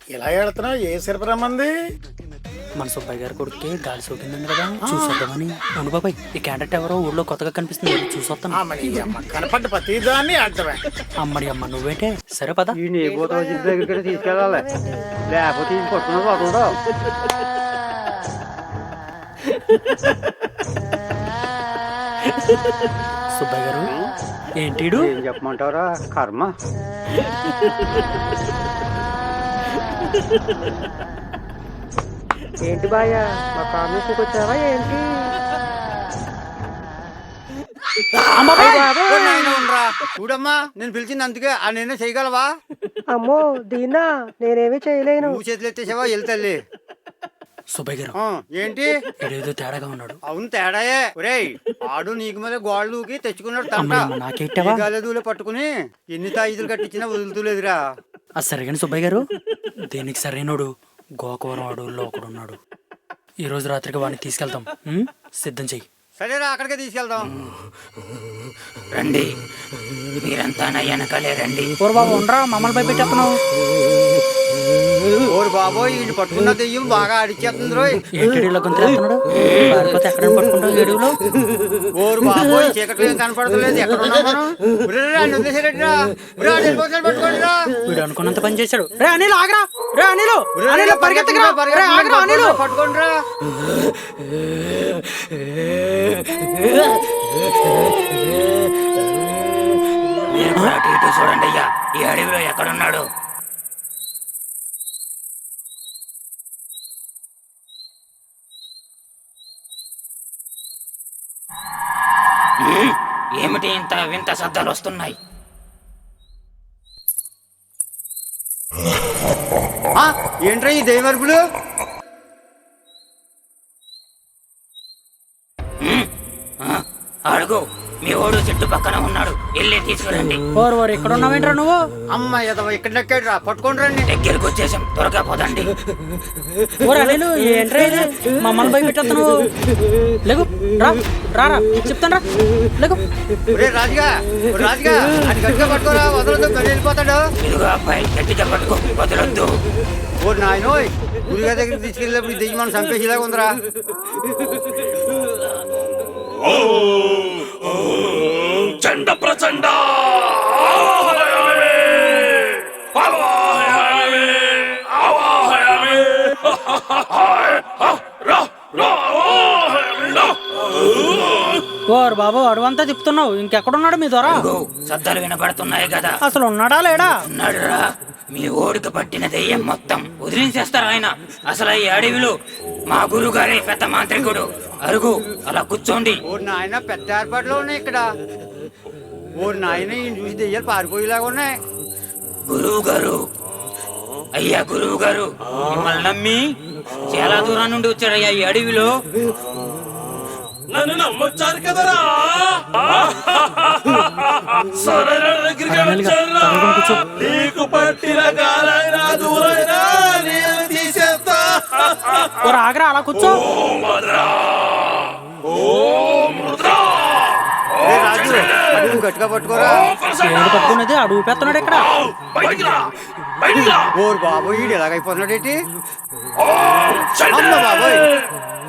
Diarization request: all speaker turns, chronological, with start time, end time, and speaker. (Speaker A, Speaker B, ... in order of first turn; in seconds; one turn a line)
Speaker A: 0.1-1.7
Speaker B: 2.8-9.2
Speaker A: 4.9-5.2
Speaker A: 8.5-10.8
Speaker B: 11.2-12.8
Speaker C: 12.8-14.7
Speaker D: 14.2-14.5
Speaker C: 15.3-16.7
Speaker B: 23.3-23.9
Speaker B: 24.6-25.1
Speaker C: 24.9-26.5
Speaker D: 32.6-35.0
Speaker B: 38.3-39.4
Speaker C: 38.5-42.5
Speaker D: 43.1-45.4
Speaker C: 45.2-46.6
Speaker B: 47.7-48.1
Speaker C: 48.2-48.9
Speaker B: 49.2-50.2
Speaker C: 50.3-54.0
Speaker B: 53.8-54.8
Speaker C: 54.6-57.8
Speaker B: 58.4-59.2
Speaker B: 59.9-60.7
Speaker B: 61.2-62.6
Speaker B: 63.4-65.8
Speaker C: 66.2-67.3
Speaker E: 68.9-69.3
Speaker E: 70.2-71.7
Speaker B: 71.8-73.3
Speaker C: 75.3-78.0
Speaker B: 78.1-81.2
Speaker E: 79.3-79.8
Speaker C: 82.0-87.7
Speaker B: 87.8-92.6
Speaker C: 90.5-93.1
Speaker E: 100.3-103.0
Speaker E: 112.6-115.1
Speaker C: 120.0-121.4
Speaker E: 126.6-130.4
Speaker B: 130.6-131.8
Speaker C: 132.1-134.1
Speaker E: 134.1-135.7
Speaker B: 136.8-139.3
Speaker B: 140.2-143.0
Speaker C: 143.5-147.2
Speaker E: 147.4-149.5
Speaker C: 150.2-153.5
Speaker F: 158.7-162.4
Speaker F: 162.9-170.4
Speaker F: 170.9-171.5
Speaker B: 171.9-174.3
Speaker E: 174.2-176.2
Speaker B: 176.3-177.1
Speaker E: 177.2-182.3
Speaker E: 182.9-186.2
Speaker C: 186.3-188.0
Speaker C: 189.4-191.5
Speaker E: 192.5-193.2
Speaker E: 194.3-196.4
Speaker E: 197.1-198.9
Speaker F: 200.7-204.1
Speaker F: 204.7-212.6
Speaker B: 205.7-207.1
Speaker B: 212.4-213.4
Speaker F: 213.2-214.8
Speaker F: 215.5-218.9
Speaker C: 217.8-219.9
Speaker F: 219.6-220.8
Speaker B: 220.2-221.8
Speaker F: 221.8-222.9
Speaker F: 223.4-223.9
Speaker C: 224.0-225.6
Speaker F: 226.4-228.0
Speaker C: 227.3-228.0